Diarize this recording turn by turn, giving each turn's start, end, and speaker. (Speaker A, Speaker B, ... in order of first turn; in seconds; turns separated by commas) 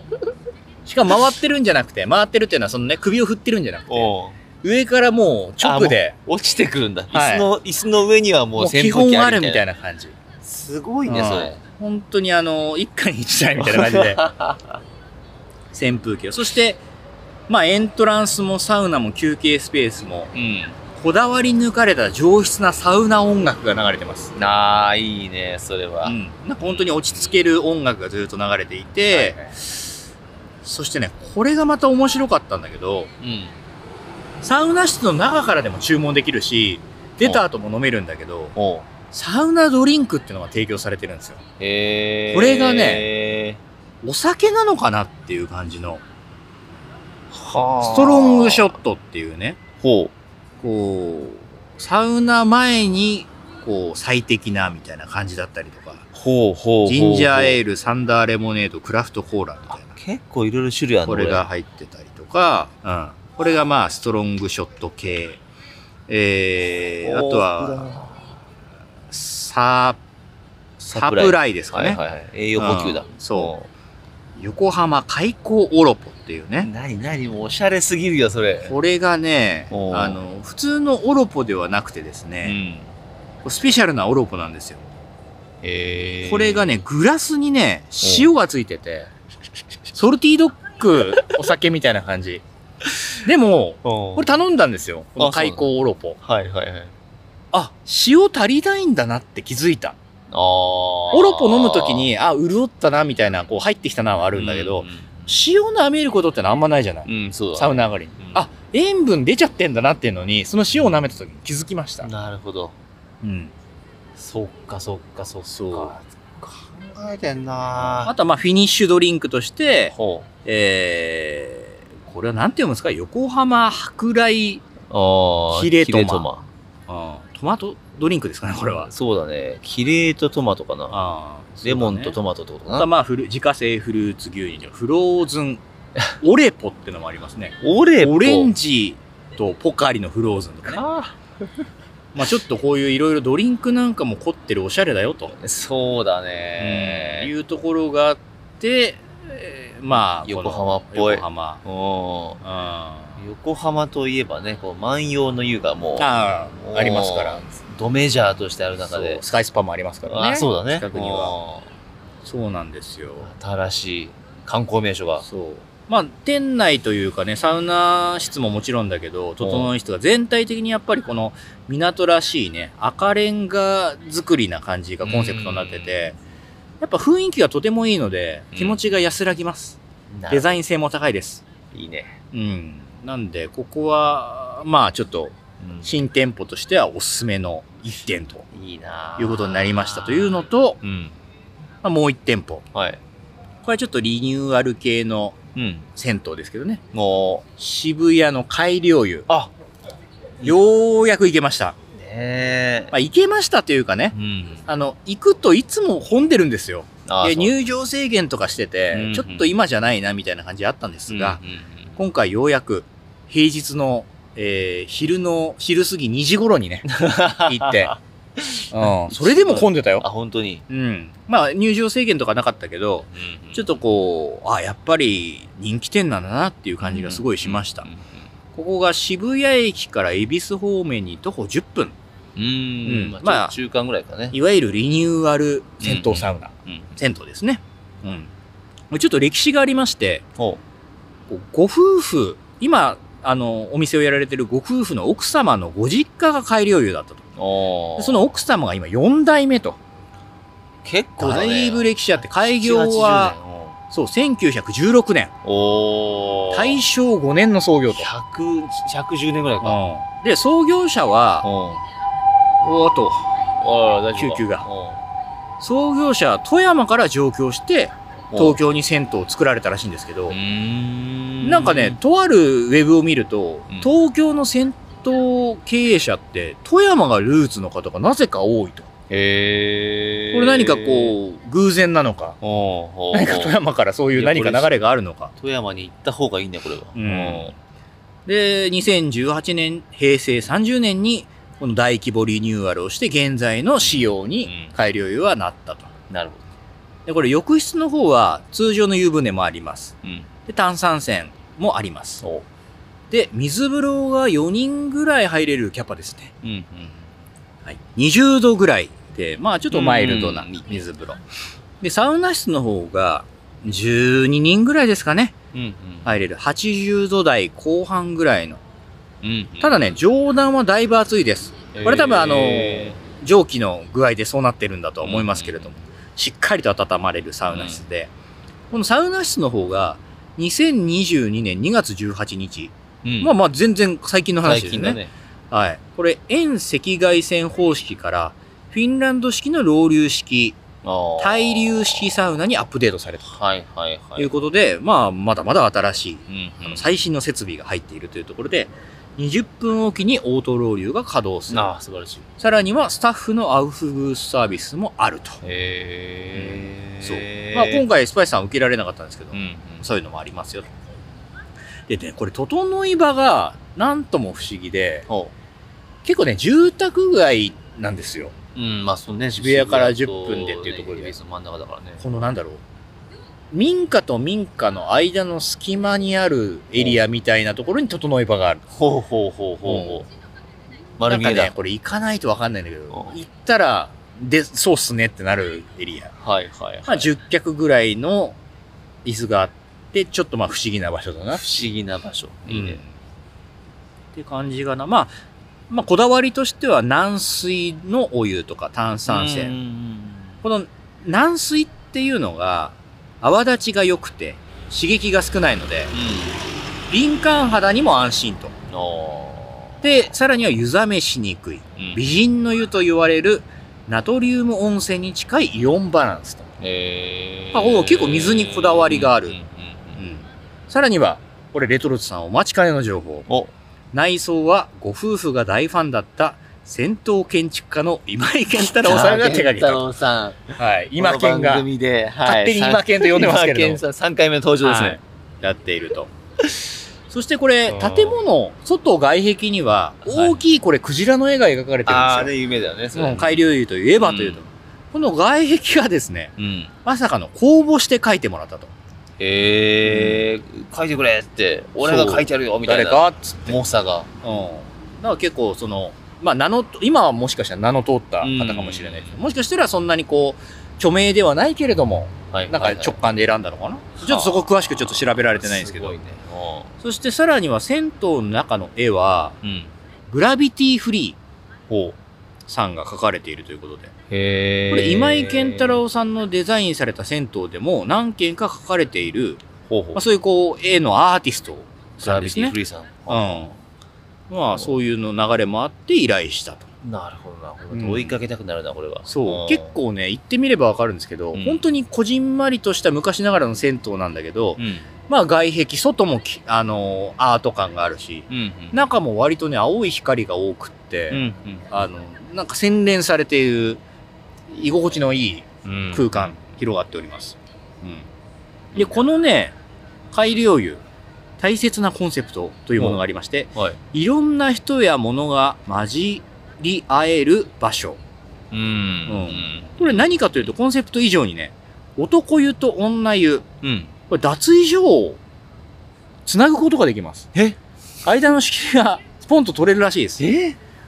Speaker A: 0.9-6.2, Speaker B: 3.9-4.4, Speaker B: 5.6-9.6, Speaker A: 7.1-7.5, Speaker A: 8.6-10.2, Speaker B: 10.4-11.6, Speaker A: 11.1-14.2, Speaker B: 13.6-14.8, Speaker A: 15.7-16.8, Speaker A: 17.5-20.3, Speaker B: 20.3-20.8, Speaker A: 20.9-24.3, Speaker B: 24.4-27.3, Speaker A: 26.0-29.8, Speaker B: 29.1-29.6, Speaker A: 30.6-33.1, Speaker B: 33.2-33.6, Speaker A: 34.4-38.5, Speaker B: 38.6-38.9, Speaker A: 39.1-41.4, Speaker B: 41.6-43.6, Speaker A: 42.3-43.1, Speaker A: 44.0-46.0, Speaker B: 47.3-48.8, Speaker A: 47.8-49.6, Speaker B: 49.8-50.1, Speaker A: 50.6-56.0, Speaker B: 56.1-57.6, Speaker A: 56.9-60.0, Speaker B: 59.7-61.5, Speaker A: 61.1-65.4, Speaker A: 66.1-67.9, Speaker B: 67.0-68.3, Speaker A: 69.1-70.0, Speaker A: 70.8-72.0, Speaker B: 70.9-73.7, Speaker A: 72.6-73.5, Speaker A: 74.4-76.7, Speaker B: 76.6-78.8, Speaker A: 78.6-82.6, Speaker B: 79.7-80.2, Speaker B: 82.4-82.9, Speaker A: 83.5-84.8, Speaker B: 85.6-86.8, Speaker A: 86.2-89.1, Speaker B: 88.0-88.3, Speaker A: 89.9-92.4, Speaker B: 92.9-93.1, Speaker A: 93.2-96.2, Speaker B: 93.8-94.4, Speaker B: 95.2-95.7, Speaker B: 96.2-96.9, Speaker A: 97.5-100.0, Speaker B: 100.3-102.1, Speaker A: 101.1-112.1, Speaker B: 104.3-105.4, Speaker B: 107.1-108.5, Speaker B: 112.0-112.8, Speaker A: 113.2-113.5, Speaker B: 114.2-118.1, Speaker A: 115.5-116.0, Speaker A: 118.0-119.9, Speaker B: 119.9-120.3, Speaker A: 120.5-124.7, Speaker B: 124.9-126.5, Speaker A: 125.5-126.3, Speaker A: 126.9-128.9, Speaker B: 128.7-131.0, Speaker A: 130.9-132.2, Speaker B: 131.6-132.9, Speaker A: 132.7-135.6, Speaker A: 136.2-140.8, Speaker B: 137.6-138.5, Speaker B: 140.7-141.5, Speaker A: 142.1-145.4, Speaker B: 145.4-147.3, Speaker A: 146.6-151.6, Speaker B: 149.9-152.4, Speaker A: 152.4-153.2, Speaker B: 153.2-159.2, Speaker A: 156.0-157.4, Speaker A: 158.9-161.3, Speaker B: 160.1-161.7, Speaker A: 162.2-163.3, Speaker B: 163.2-165.2, Speaker A: 165.2-176.2, Speaker B: 169.4-169.7, Speaker B: 175.0-176.1, Speaker A: 176.8-179.8, Speaker B: 178.5-178.8, Speaker B: 180.1-180.6, Speaker A: 180.3-181.4, Speaker B: 181.7-182.2, Speaker A: 182.3-188.5, Speaker B: 185.6-185.9, Speaker B: 188.5-191.2, Speaker A: 189.2-190.8, Speaker A: 191.8-192.7, Speaker B: 192.7-193.0, Speaker A: 193.6-195.4, Speaker B: 195.6-195.9, Speaker A: 196.0-196.8, Speaker B: 196.9-197.4, Speaker A: 197.6-199.3, Speaker A: 200.4-201.8, Speaker B: 201.9-202.9, Speaker A: 202.9-204.2, Speaker B: 204.1-204.7, Speaker A: 204.7-211.4, Speaker B: 207.1-207.5, Speaker B: 208.9-209.5, Speaker B: 211.1-212.0, Speaker A: 212.0-217.9, Speaker B: 216.9-220.6, Speaker A: 218.7-220.1, Speaker A: 220.7-227.9, Speaker B: 223.1-223.7, Speaker B: 226.8-228.2, Speaker A: 228.5-232.0, Speaker B: 232.4-234.4, Speaker A: 232.8-233.5, Speaker A: 234.3-238.3, Speaker B: 235.8-236.9, Speaker A: 238.9-240.2, Speaker A: 241.3-247.2, Speaker B: 247.4-248.3, Speaker A: 248.0-249.8, Speaker B: 250.8-253.8, Speaker A: 251.2-253.4, Speaker A: 253.9-255.3, Speaker B: 255.4-256.8, Speaker A: 256.5-258.1, Speaker B: 257.9-259.8, Speaker A: 259.6-261.5, Speaker B: 261.4-261.8, Speaker A: 262.6-263.3, Speaker B: 263.6-265.0, Speaker A: 264.2-264.6, Speaker A: 265.6-270.4, Speaker B: 268.3-268.6, Speaker B: 270.3-272.0, Speaker A: 271.4-278.9, Speaker B: 279.1-281.2, Speaker A: 280.3-282.4, Speaker B: 282.4-283.6, Speaker A: 283.1-285.3, Speaker B: 284.1-284.8, Speaker B: 285.4-287.5, Speaker A: 286.9-287.6, Speaker A: 288.3-295.9, Speaker B: 293.8-294.7, Speaker B: 296.1-296.4, Speaker A: 297.1-299.9, Speaker B: 300.0-300.3, Speaker A: 300.5-302.2, Speaker A: 303.1-306.3, Speaker B: 306.4-307.0, Speaker A: 307.7-311.2, Speaker B: 309.7-310.8, Speaker A: 311.8-315.4, Speaker B: 315.5-316.1, Speaker A: 316.1-318.6, Speaker B: 319.2-319.9, Speaker A: 319.6-328.1, Speaker B: 321.7-323.0, Speaker B: 325.0-325.8, Speaker B: 327.5-327.9, Speaker A: 328.7-335.0, Speaker B: 333.0-333.3, Speaker B: 334.4-335.1, Speaker A: 335.5-340.6, Speaker B: 340.8-342.0, Speaker A: 341.2-343.4, Speaker B: 343.3-344.3, Speaker A: 344.2-351.7, Speaker B: 346.3-346.9, Speaker B: 351.5-352.3, Speaker A: 352.4-355.4, Speaker B: 355.4-357.9, Speaker A: 356.4-360.7, Speaker B: 359.3-359.8, Speaker A: 361.9-365.1, Speaker A: 366.0-368.3, Speaker B: 368.6-372.1, Speaker A: 369.4-371.1, Speaker A: 372.0-372.6, Speaker A: 373.5-378.6, Speaker B: 378.7-380.1, Speaker A: 379.6-380.1, Speaker B: 381.0-381.5, Speaker A: 381.1-386.1, Speaker B: 386.2-387.1, Speaker A: 386.9-388.4, Speaker A: 389.1-391.4, Speaker B: 391.3-392.8, Speaker A: 392.5-392.9, Speaker A: 394.1-395.1, Speaker A: 395.7-399.5, Speaker B: 399.1-400.4, Speaker A: 400.4-406.0, Speaker B: 405.9-406.4, Speaker A: 406.9-408.5, Speaker B: 408.7-409.9, Speaker A: 409.8-416.5, Speaker B: 411.8-412.2, Speaker B: 416.6-420.0, Speaker A: 417.5-419.4, Speaker A: 420.0-423.3, Speaker B: 423.3-423.5, Speaker A: 423.9-429.9, Speaker B: 428.6-435.0, Speaker A: 430.6-431.7, Speaker A: 432.2-433.8, Speaker A: 434.6-436.1, Speaker A: 437.1-442.3, Speaker B: 437.7-438.2, Speaker B: 440.1-440.4, Speaker B: 441.9-443.4, Speaker A: 442.9-448.7, Speaker B: 444.0-444.4, Speaker B: 446.4-446.7, Speaker B: 449.2-454.1, Speaker A: 449.8-450.3, Speaker A: 451.8-453.6, Speaker A: 454.2-466.0, Speaker B: 458.2-459.2, Speaker B: 462.3-463.0, Speaker B: 464.0-466.7, Speaker A: 466.8-469.4, Speaker B: 469.4-469.7, Speaker A: 470.1-471.2, Speaker B: 471.7-472.0, Speaker A: 472.5-473.9, Speaker B: 474.1-475.8, Speaker A: 474.7-479.4, Speaker B: 479.7-480.0, Speaker A: 479.9-482.6, Speaker B: 482.0-483.5, Speaker A: 483.1-483.6, Speaker A: 484.3-486.7, Speaker B: 486.8-489.8, Speaker A: 487.7-488.2, Speaker A: 489.1-503.8, Speaker B: 491.3-491.7, Speaker B: 494.6-494.9, Speaker B: 498.3-498.8, Speaker B: 501.1-501.7, Speaker A: 504.5-508.1, Speaker B: 505.6-506.4, Speaker B: 508.7-509.0, Speaker A: 508.8-509.6, Speaker A: 510.1-510.8, Speaker A: 511.4-518.0, Speaker B: 518.5-520.2, Speaker A: 519.1-523.5, Speaker B: 523.6-523.9, Speaker A: 524.1-525.2, Speaker A: 526.2-527.3, Speaker A: 528.0-530.2, Speaker B: 530.2-530.6